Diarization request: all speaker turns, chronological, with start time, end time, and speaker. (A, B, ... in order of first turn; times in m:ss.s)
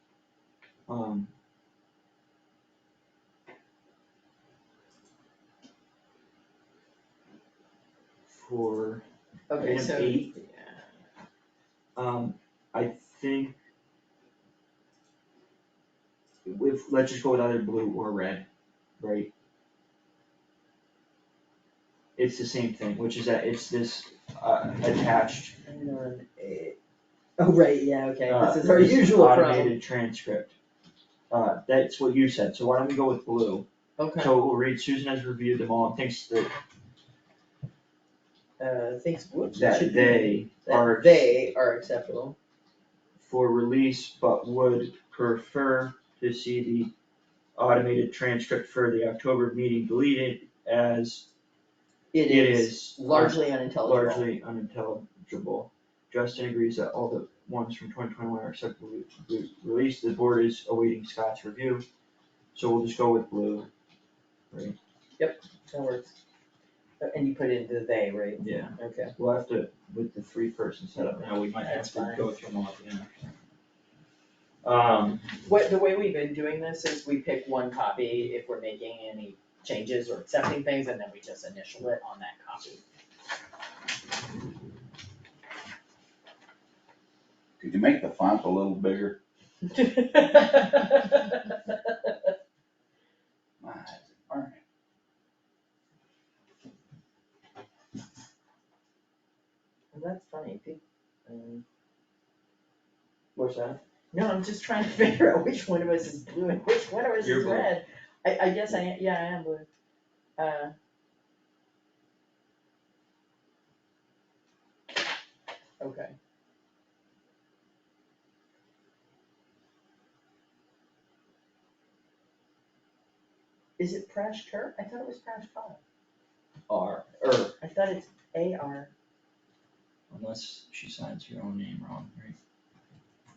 0:00.9-0:01.3 A
0:08.3-0:10.3 A
0:09.5-0:10.9 B
0:12.0-0:13.5 A
0:16.4-0:18.4 A
0:19.0-0:19.3 A
0:22.2-0:25.5 A
0:25.6-0:26.8 B
0:27.4-0:29.8 B
0:28.2-0:30.5 A
0:31.3-0:36.5 A
0:34.0-0:34.3 B
0:38.6-0:42.4 B
0:39.5-0:41.3 A
0:43.2-0:46.9 A
0:47.6-0:51.3 A
0:52.1-0:54.2 B
0:52.3-1:01.8 A
1:02.5-1:03.7 A
1:04.5-1:04.8 A
1:05.2-1:06.1 B
1:07.0-1:09.1 B
1:08.4-1:13.1 A
1:11.0-1:12.3 B
1:14.6-1:15.2 A
1:15.4-1:22.8 B
1:27.6-1:29.2 C
1:29.7-1:32.1 B
1:33.6-1:34.6 C
1:39.9-1:41.6 B
1:43.3-1:43.8 A
1:44.1-1:49.7 B
1:47.2-1:47.7 A
1:50.4-1:50.7 B
1:55.8-1:56.1 B
2:03.8-2:05.8 B
2:06.7-2:07.5 A
2:07.6-2:08.9 B
2:10.1-2:12.4 A